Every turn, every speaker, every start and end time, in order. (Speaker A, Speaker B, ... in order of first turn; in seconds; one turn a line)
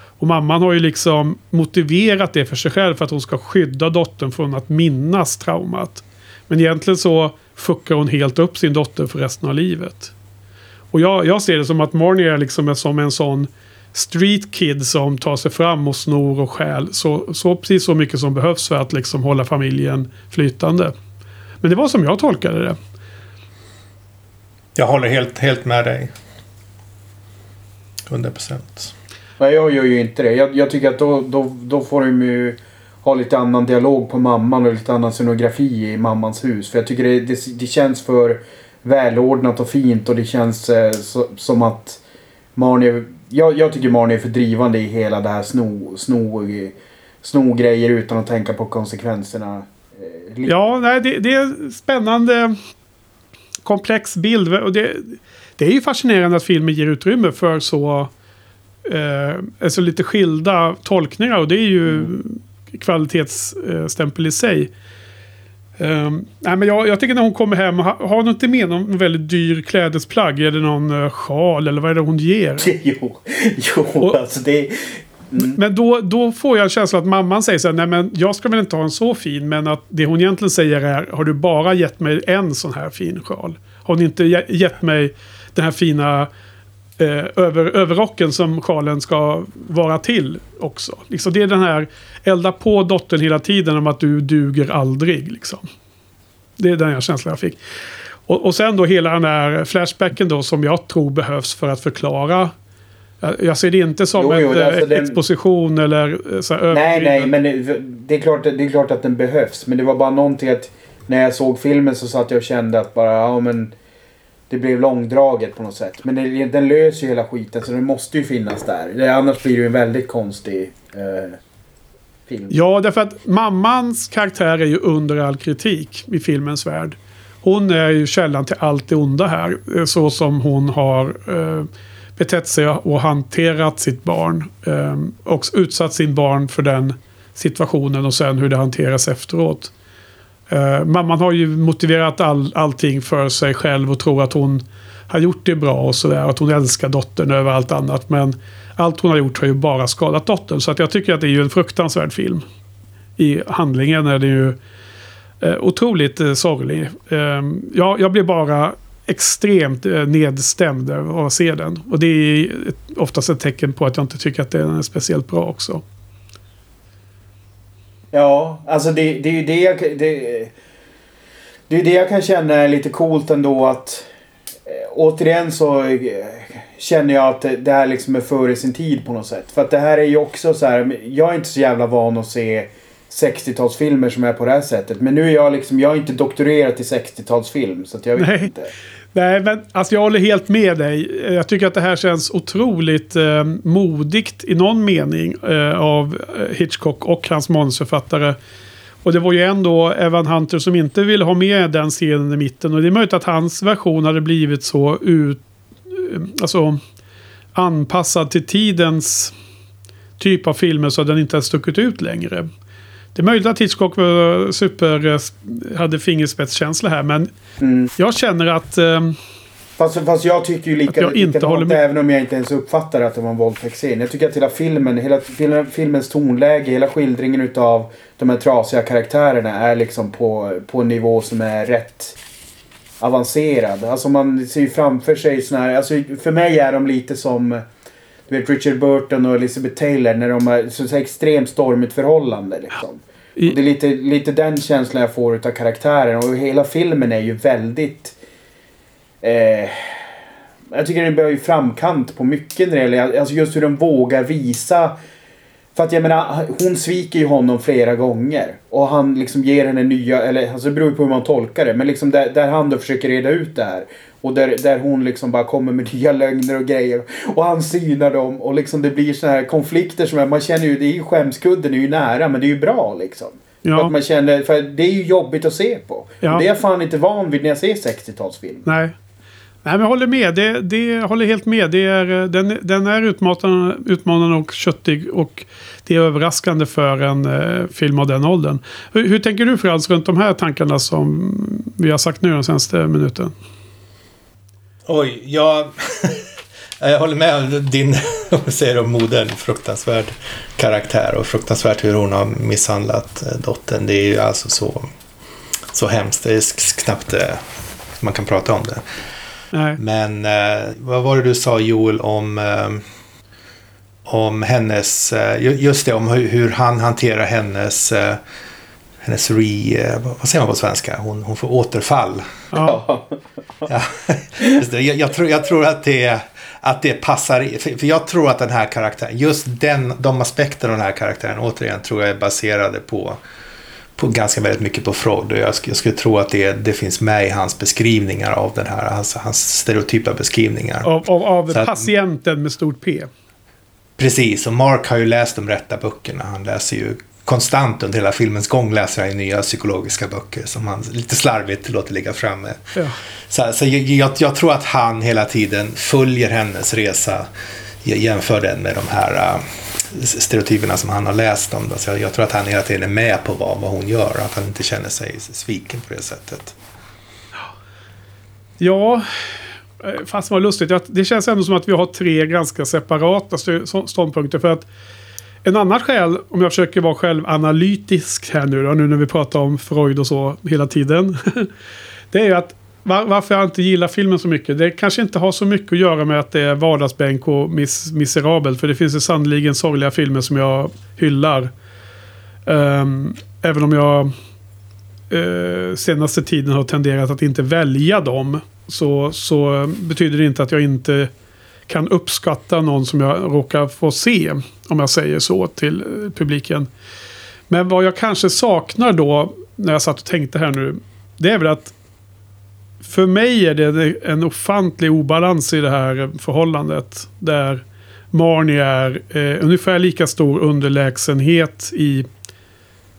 Speaker A: 0.2-10.1
Speaker A: 10.9-20.9
Speaker A: 21.6-22.8
Speaker B: 24.8-26.1
Speaker B: 28.1-28.9
Speaker C: 29.4-42.0
Speaker C: 42.5-50.5
Speaker A: 50.5-52.6
Speaker A: 53.6-58.1
Speaker A: 58.8-64.7
Speaker A: 65.8-72.7
Speaker C: 72.6-75.6
Speaker A: 75.4-86.3
Speaker A: 87.0-95.7
Speaker A: 96.6-97.6
Speaker A: 98.3-102.5
Speaker A: 103.2-107.3
Speaker C: 104.2-105.2
Speaker C: 106.7-113.7
Speaker C: 114.5-121.4
Speaker C: 122.3-122.5
Speaker A: 122.5-139.7
Speaker A: 140.5-152.4
Speaker A: 153.2-154.6
Speaker A: 155.4-165.8
Speaker C: 168.1-170.5
Speaker C: 171.7-174.1
Speaker C: 174.7-188.7
Speaker A: 188.2-188.5
Speaker A: 189.1-198.4
Speaker A: 199.0-206.8
Speaker A: 207.5-209.3
Speaker A: 210.2-212.5
Speaker A: 213.1-217.3
Speaker C: 217.6-217.9
Speaker A: 218.0-219.2
Speaker C: 219.8-232.2
Speaker A: 220.9-221.8
Speaker C: 233.0-237.6
Speaker C: 238.3-248.1
Speaker C: 249.2-250.1
Speaker C: 250.7-254.9
Speaker C: 255.7-278.7
Speaker A: 273.6-273.9
Speaker A: 278.6-278.9
Speaker A: 279.6-293.3
Speaker B: 294.9-296.3
Speaker B: 296.8-304.9
Speaker B: 305.7-307.4
Speaker B: 308.0-308.8
Speaker A: 309.5-309.8
Speaker B: 309.8-312.8
Speaker B: 314.1-318.2
Speaker B: 319.0-322.4
Speaker A: 322.5-322.8
Speaker C: 322.6-323.1
Speaker B: 323.6-333.2
Speaker B: 333.9-341.9
Speaker A: 340.8-343.1
Speaker B: 344.0-352.7
Speaker B: 353.3-357.3
Speaker B: 357.8-366.6
Speaker A: 368.6-369.1
Speaker A: 369.8-374.7
Speaker A: 375.4-381.5
Speaker A: 382.1-391.5
Speaker A: 392.4-394.1
Speaker A: 395.1-401.1
Speaker A: 401.7-406.7
Speaker A: 407.5-411.7
Speaker A: 412.8-422.1